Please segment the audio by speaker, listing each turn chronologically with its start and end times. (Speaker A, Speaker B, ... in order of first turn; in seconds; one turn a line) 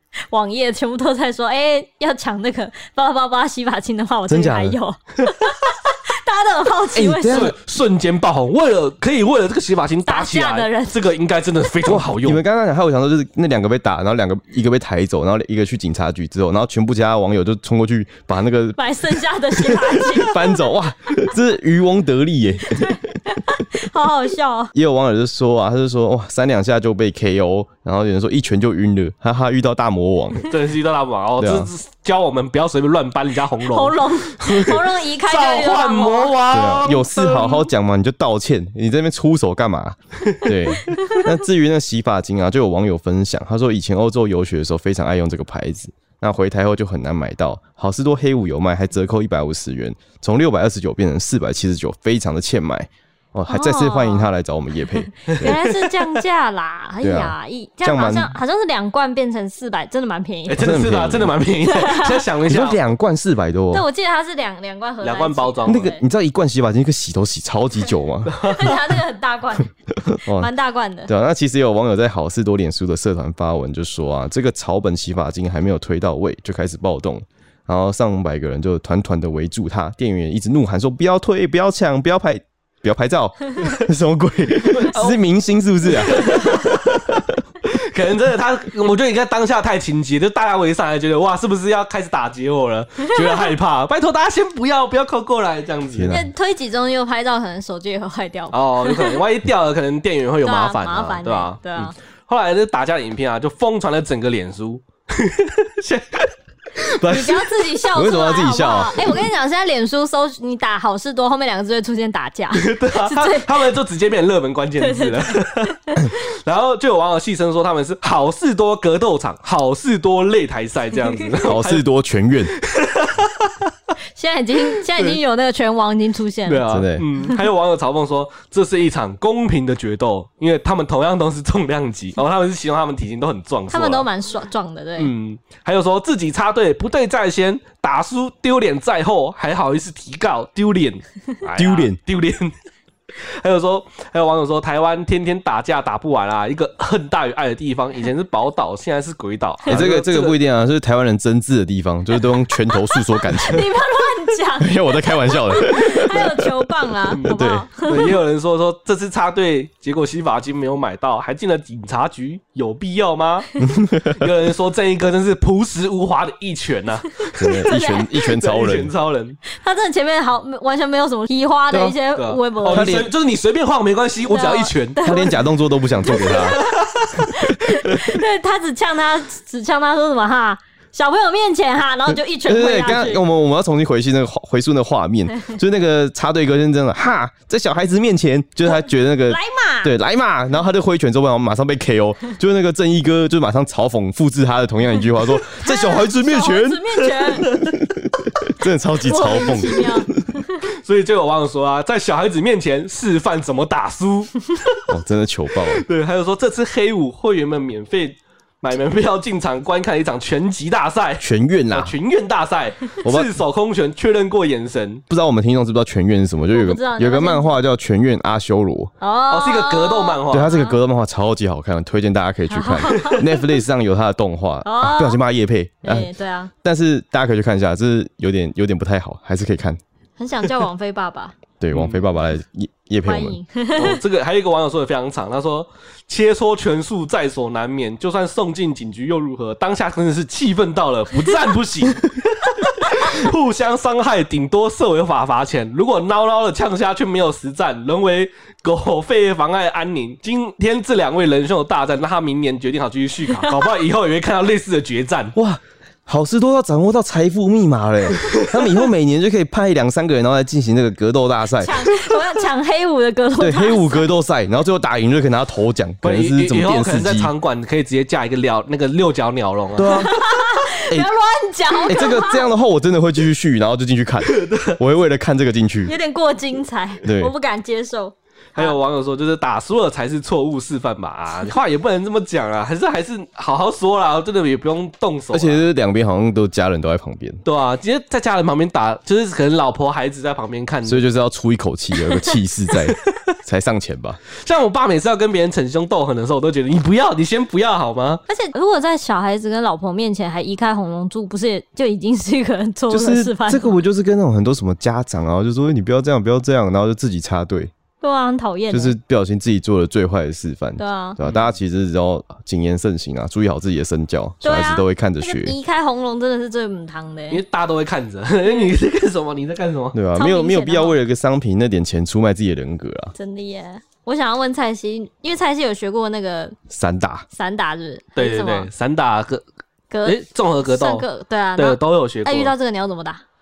Speaker A: 0.3-7.5
Speaker B: 4.3-4.8
Speaker B: 6.9-7.5
Speaker C: 7.3-12.4
Speaker A: 10.1-11.0
Speaker B: 11.8-18.8
Speaker A: 18.8-20.6
Speaker B: 19.6-23.0
Speaker A: 22.7-24.7
Speaker B: 24.7-30.5
Speaker C: 30.4-37.6
Speaker B: 31.4-31.7
Speaker A: 33.7-36.4
Speaker B: 36.5-55.6
Speaker A: 53.5-54.3
Speaker A: 55.2-60.6
Speaker C: 55.3-55.6
Speaker B: 57.0-58.3
Speaker C: 60.5-62.8
Speaker B: 60.6-61.4
Speaker A: 61.7-62.2
Speaker B: 62.5-63.8
Speaker A: 63.7-66.0
Speaker C: 65.0-65.9
Speaker B: 65.7-68.7
Speaker C: 68.3-68.7
Speaker A: 68.4-69.7
Speaker B: 70.0-70.5
Speaker A: 70.4-71.1
Speaker B: 71.1-86.6
Speaker C: 84.7-85.2
Speaker C: 86.0-96.2
Speaker B: 95.9-96.3
Speaker A: 96.1-99.2
Speaker C: 98.5-107.4
Speaker A: 100.4-101.9
Speaker A: 107.0-113.5
Speaker B: 107.9-109.1
Speaker C: 112.5-121.8
Speaker A: 114.8-116.0
Speaker B: 121.4-122.5
Speaker C: 122.5-123.7
Speaker A: 124.1-126.6
Speaker C: 124.9-125.2
Speaker C: 126.5-134.1
Speaker B: 126.7-127.0
Speaker A: 133.7-135.1
Speaker C: 135.0-142.5
Speaker B: 141.5-142.0
Speaker C: 143.2-150.4
Speaker B: 149.7-153.7
Speaker A: 152.9-158.2
Speaker B: 154.6-156.5
Speaker C: 157.1-163.5
Speaker B: 157.2-157.7
Speaker B: 163.6-164.2
Speaker C: 164.1-167.5
Speaker B: 167.4-168.9
Speaker A: 167.5-168.2
Speaker C: 168.2-169.4
Speaker A: 169.5-173.0
Speaker B: 171.7-171.9
Speaker C: 172.2-175.1
Speaker B: 172.7-173.1
Speaker A: 174.3-175.4
Speaker B: 175.0-176.6
Speaker A: 176.1-176.7
Speaker C: 176.2-177.1
Speaker A: 177.2-183.2
Speaker B: 182.1-200.2
Speaker A: 188.7-189.9
Speaker A: 195.6-197.5
Speaker C: 197.3-197.7
Speaker A: 199.0-200.6
Speaker C: 200.6-204.7
Speaker B: 204.9-205.8
Speaker C: 205.7-215.0
Speaker B: 211.2-211.9
Speaker B: 213.0-213.3
Speaker B: 215.1-218.9
Speaker A: 216.5-217.5
Speaker A: 219.0-220.8
Speaker C: 219.3-220.5
Speaker B: 220.3-226.1
Speaker A: 222.5-223.2
Speaker A: 224.6-225.2
Speaker A: 225.8-226.5
Speaker B: 226.6-229.8
Speaker A: 230.2-231.3
Speaker B: 231.6-233.4
Speaker C: 231.7-232.0
Speaker A: 233.0-234.0
Speaker C: 233.7-255.3
Speaker B: 255.3-261.7
Speaker C: 258.3-258.6
Speaker A: 261.6-264.1
Speaker B: 263.4-267.3
Speaker C: 266.0-270.1
Speaker B: 269.8-270.2
Speaker A: 269.9-272.4
Speaker B: 271.9-275.9
Speaker C: 274.2-274.8
Speaker A: 275.9-278.8
Speaker B: 277.0-277.3
Speaker C: 278.5-285.6
Speaker B: 285.3-287.4
Speaker C: 287.4-291.0
Speaker B: 290.9-294.2
Speaker C: 294.4-298.2
Speaker A: 298.3-303.8
Speaker B: 302.9-307.7
Speaker A: 308.0-308.9
Speaker B: 308.7-315.5
Speaker A: 310.8-311.2
Speaker A: 314.4-317.4
Speaker C: 317.3-320.0
Speaker A: 318.4-318.7
Speaker B: 319.9-323.1
Speaker A: 320.1-321.0
Speaker A: 323.1-326.6
Speaker B: 326.7-327.2
Speaker A: 327.3-328.7
Speaker C: 328.1-329.4
Speaker A: 329.9-333.2
Speaker C: 330.0-332.5